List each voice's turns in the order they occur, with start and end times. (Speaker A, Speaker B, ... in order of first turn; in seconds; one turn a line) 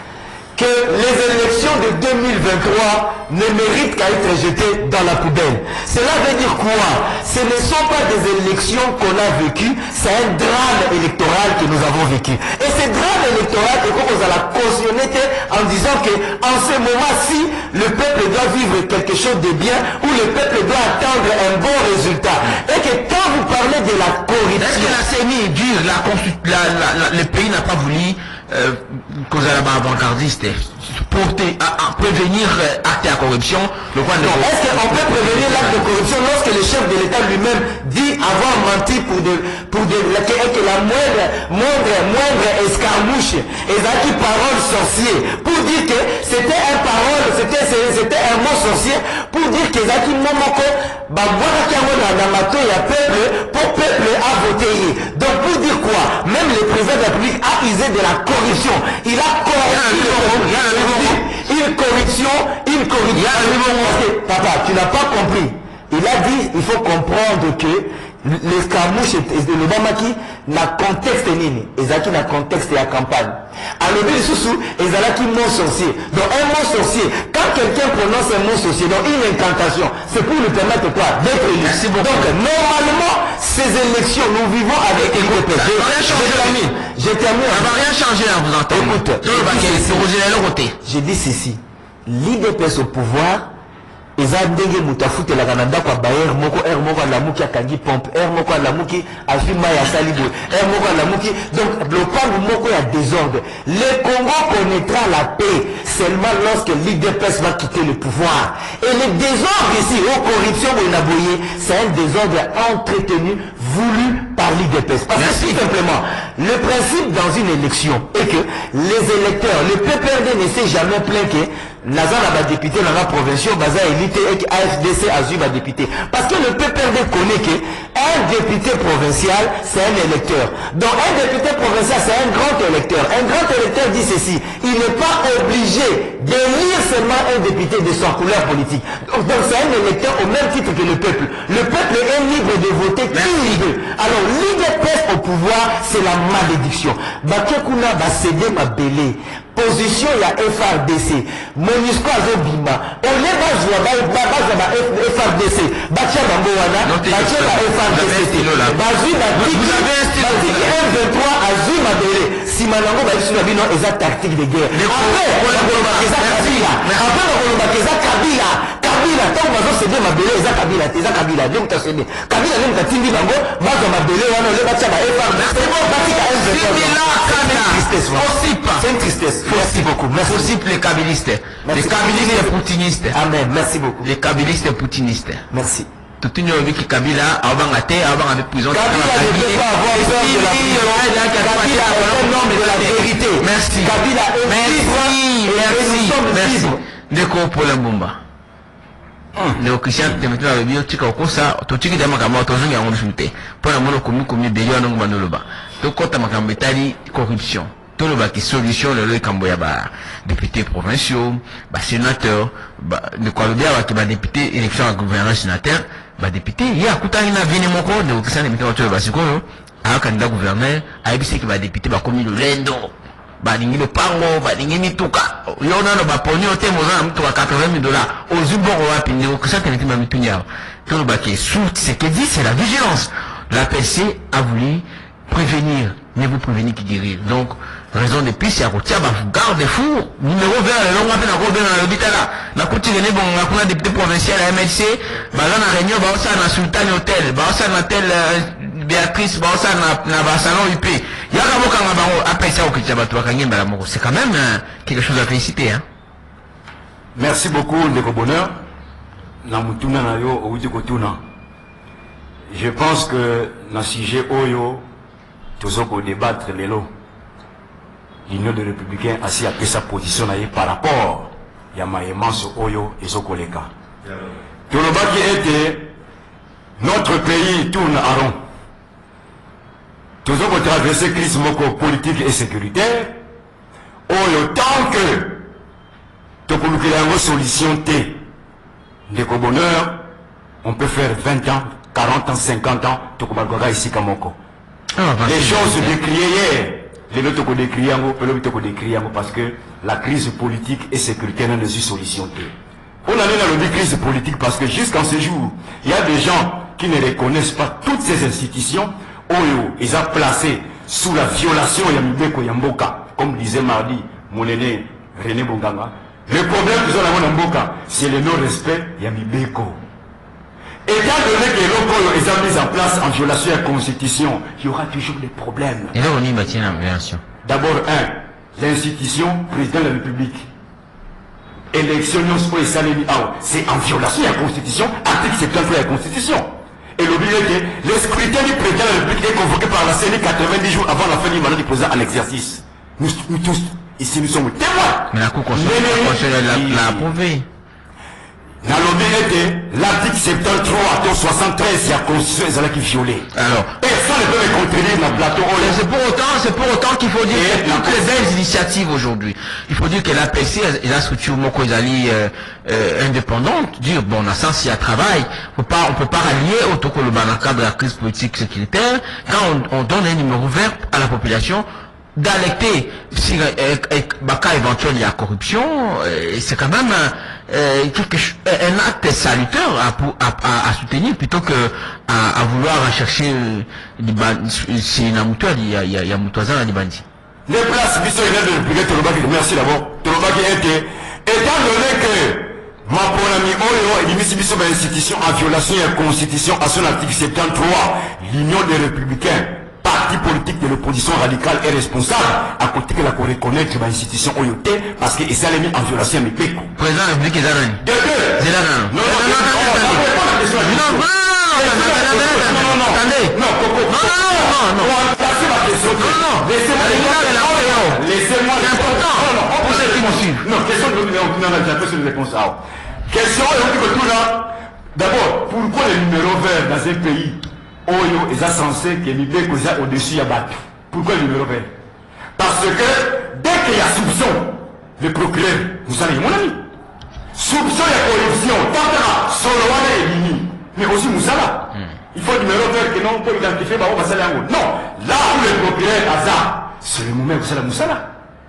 Speaker A: 0.6-25.0
Speaker B: 24.6-35.9
Speaker A: 34.2-87.7
Speaker B: 59.6-61.2
Speaker B: 63.1-64.0
Speaker B: 81.6-82.3
Speaker B: 84.9-86.6
Speaker B: 87.5-90.8
Speaker A: 88.7-90.1
Speaker A: 90.8-93.5
Speaker A: 94.2-180.5
Speaker B: 115.1-115.6
Speaker B: 143.1-143.6
Speaker B: 156.8-158.8
Speaker B: 159.3-160.8
Speaker B: 164.7-167.1
Speaker B: 175.4-178.9
Speaker B: 179.4-183.2
Speaker A: 181.6-182.5
Speaker A: 183.1-184.1
Speaker B: 184.0-185.4
Speaker A: 185.5-185.9
Speaker B: 186.2-198.2
Speaker A: 188.7-196.8
Speaker B: 199.6-255.8
Speaker C: 257.1-258.5
Speaker C: 259.4-261.2
Speaker C: 262.5-264.9
Speaker C: 265.6-266.9
Speaker C: 268.3-273.7
Speaker C: 274.7-275.9
Speaker C: 276.8-278.4
Speaker C: 280.2-283.2
Speaker C: 284.1-285.5
Speaker C: 286.4-288.2
Speaker C: 289.1-290.1
Speaker C: 290.6-294.4
Speaker B: 294.9-295.9
Speaker C: 295.2-319.8
Speaker C: 320.9-325.9
Speaker B: 325.9-327.2
Speaker C: 327.4-330.5
Speaker C: 331.7-347.1
Speaker B: 345.1-347.4
Speaker C: 348.6-355.8
Speaker B: 353.4-353.7
Speaker B: 355.5-371.6
Speaker C: 357.3-358.3
Speaker B: 372.2-387.0
Speaker C: 387.5-406.7
Speaker B: 406.8-407.9
Speaker C: 407.8-431.7
Speaker B: 408.4-413.4
Speaker B: 413.9-414.9
Speaker B: 415.9-418.0
Speaker B: 418.6-420.4
Speaker C: 432.4-436.7
Speaker C: 437.3-448.1